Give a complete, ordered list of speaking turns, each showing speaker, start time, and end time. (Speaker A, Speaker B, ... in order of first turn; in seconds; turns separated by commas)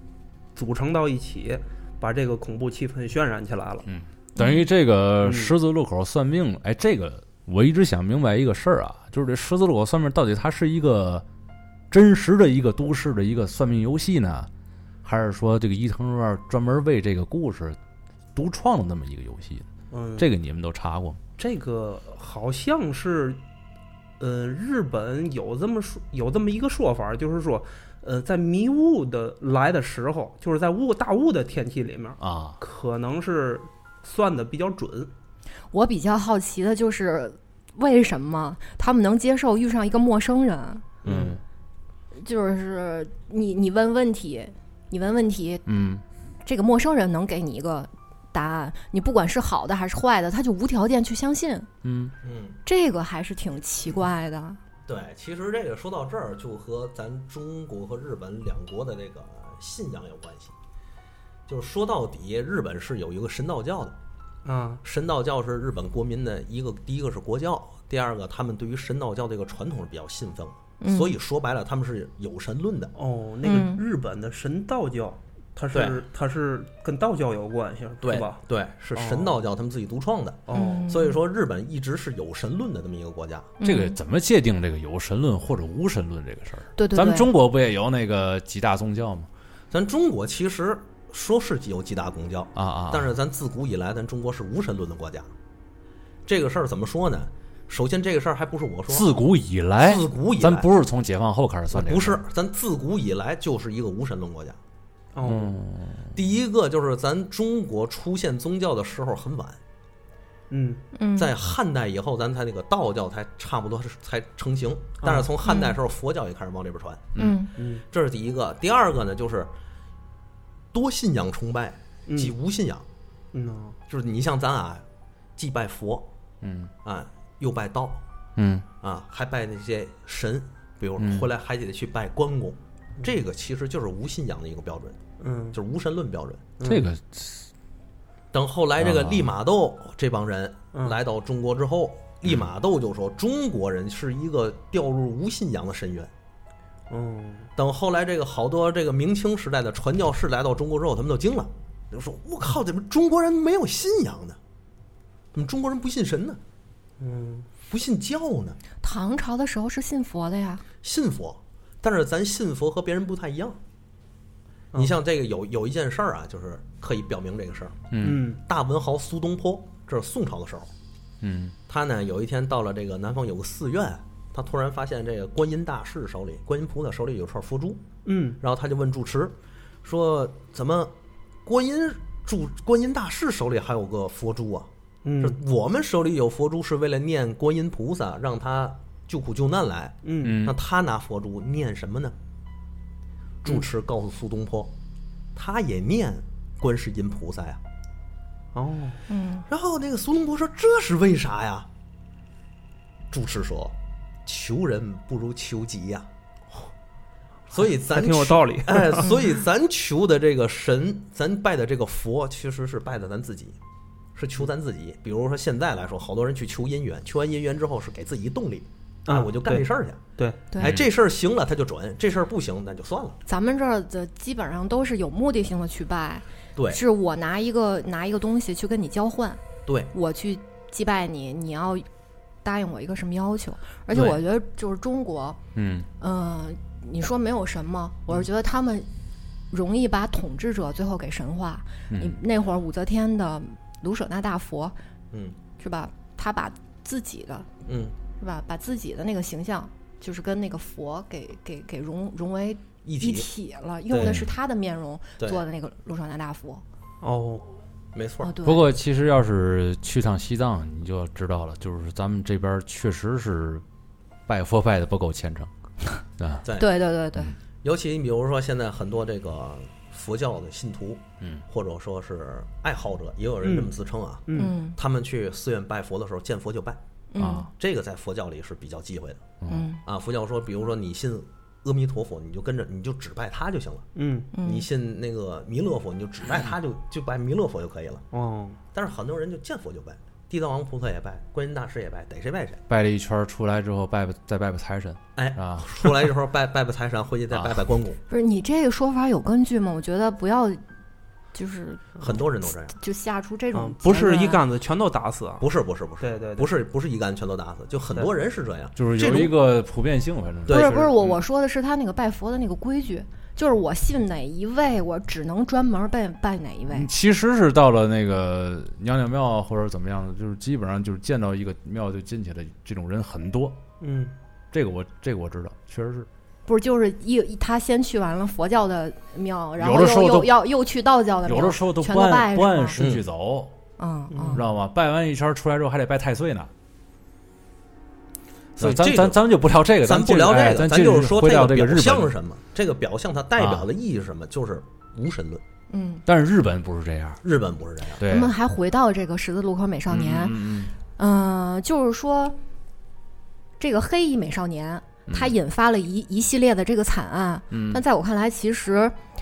Speaker A: 0.5-3.9, Speaker B: 3.9-11.2, Speaker C: 4.4-4.6, Speaker A: 5.2-5.5, Speaker B: 11.9-14.5, Speaker B: 15.0-17.8, Speaker B: 18.3-21.2, Speaker A: 19.9-20.3, Speaker A: 21.4-23.4, Speaker A: 24.2-35.1, Speaker B: 32.2-32.6, Speaker C: 35.7-40.9, Speaker A: 41.0-41.4, Speaker B: 41.0-41.4, Speaker C: 42.2-45.6, Speaker B: 45.6-46.0, Speaker C: 46.4-51.7, Speaker B: 51.8-52.1, Speaker D: 52.2-52.6, Speaker C: 52.6-54.6, Speaker D: 54.9-60.5, Speaker D: 61.5-64.0, Speaker A: 64.4-64.8, Speaker D: 64.8-72.9, Speaker C: 70.8-71.2, Speaker A: 72.9-78.4, Speaker C: 73.4-73.8, Speaker D: 75.7-76.0, Speaker D: 78.0-83.5, Speaker A: 78.9-79.4, Speaker A: 80.5-80.8, Speaker C: 80.5-81.2, Speaker C: 83.6-84.0, Speaker B: 83.6-89.3, Speaker C: 86.8-87.3, Speaker D: 89.7-95.3, Speaker B: 92.5-93.1, Speaker D: 96.2-99.1, Speaker B: 98.9-102.2, Speaker D: 99.8-100.7, Speaker D: 101.7-104.6, Speaker A: 105.1-105.5, Speaker B: 105.2-106.2, Speaker D: 106.1-109.6, Speaker A: 110.5-110.8, Speaker C: 110.9-111.3, Speaker D: 111.1-117.1, Speaker A: 115.0-115.3, Speaker C: 115.4-115.8, Speaker C: 117.2-117.5, Speaker A: 117.6-117.8, Speaker D: 117.9-119.5, Speaker D: 120.7-122.8, Speaker A: 122.1-122.3, Speaker A: 123.3-123.8, Speaker D: 123.9-124.8, Speaker D: 125.4-126.1, Speaker B: 126.4-126.7, Speaker D: 126.8-128.0, Speaker B: 128.4-128.7, Speaker D: 128.8-135.0, Speaker B: 131.0-131.3, Speaker A: 135.2-135.6, Speaker D: 135.5-136.5, Speaker A: 136.6-136.9, Speaker B: 136.6-137.4, Speaker D: 138.3-146.1, Speaker B: 138.8-139.3, Speaker A: 146.9-147.5, Speaker D: 147.6-154.4, Speaker D: 155.3-156.4, Speaker A: 157.0-157.5, Speaker D: 157.6-158.6, Speaker C: 158.8-160.6, Speaker D: 160.8-163.6, Speaker D: 164.7-167.8, Speaker B: 167.9-168.2, Speaker A: 168.0-168.4, Speaker D: 168.4-170.7, Speaker B: 171.2-171.5, Speaker D: 171.7-177.8, Speaker A: 178.0-178.4, Speaker D: 178.4-180.9, Speaker D: 181.4-192.2, Speaker A: 185.0-185.4, Speaker A: 190.0-190.4, Speaker B: 190.2-190.6, Speaker D: 193.4-194.7, Speaker D: 195.3-197.6, Speaker A: 198.5-199.0, Speaker C: 199.1-199.4, Speaker D: 199.5-201.7, Speaker D: 203.1-206.1, Speaker D: 207.5-213.6, Speaker A: 207.6-209.2, Speaker D: 214.2-220.0, Speaker A: 219.1-220.4, Speaker C: 220.5-220.8, Speaker D: 220.6-223.2, Speaker C: 223.3-231.9, Speaker D: 226.6-226.8, Speaker D: 229.7-229.9, Speaker C: 232.4-235.4, Speaker D: 233.9-234.2, Speaker B: 235.5-235.9, Speaker C: 236.0-238.9, Speaker C: 239.5-244.7, Speaker B: 241.9-242.2, Speaker D: 245.1-245.4, Speaker C: 245.6-247.5, Speaker D: 247.7-247.9, Speaker C: 248.2-256.6, Speaker D: 252.8-253.3, Speaker B: 254.0-254.3, Speaker A: 257.0-257.5, Speaker D: 257.9-258.3, Speaker C: 258.2-258.7, Speaker B: 258.4-263.6, Speaker B: 264.3-265.5, Speaker B: 266.2-266.4, Speaker D: 266.4-266.8, Speaker C: 266.6-267.3, Speaker D: 267.6-276.8, Speaker A: 273.4-273.7, Speaker A: 274.3-274.5, Speaker C: 274.4-274.8, Speaker C: 277.1-277.5, Speaker B: 277.2-277.5, Speaker D: 277.5-279.2, Speaker B: 279.4-279.7, Speaker C: 279.5-279.8, Speaker D: 279.8-283.9, Speaker A: 283.9-284.3, Speaker C: 284.3-284.7, Speaker D: 284.4-288.0, Speaker A: 288.1-288.6, Speaker D: 288.7-292.6, Speaker B: 292.7-295.9, Speaker D: 295.1-298.0, Speaker B: 297.3-297.6, Speaker C: 298.1-300.6, Speaker C: 301.3-302.0, Speaker D: 302.0-302.8, Speaker C: 302.7-304.4, Speaker A: 303.5-305.5, Speaker D: 305.4-309.3, Speaker A: 306.0-306.5, Speaker B: 308.8-310.7, Speaker D: 310.4-310.9, Speaker C: 310.5-316.9, Speaker B: 316.7-323.6, Speaker A: 323.8-324.1, Speaker B: 324.5-326.1, Speaker C: 326.4-332.8, Speaker B: 329.6-330.3, Speaker B: 331.2-333.5, Speaker D: 332.8-333.0, Speaker C: 333.8-334.4, Speaker A: 334.1-334.4, Speaker B: 334.3-336.5, Speaker D: 338.6-339.2, Speaker B: 338.6-342.1, Speaker D: 339.8-345.4, Speaker B: 343.4-343.7, Speaker C: 345.7-346.0, Speaker B: 346.1-347.2, Speaker D: 347.2-348.0, Speaker B: 348.0-348.3, Speaker C: 348.0-352.4, Speaker B: 349.9-350.7, Speaker C: 353.6-359.0, Speaker B: 355.1-355.3, Speaker B: 357.5-357.8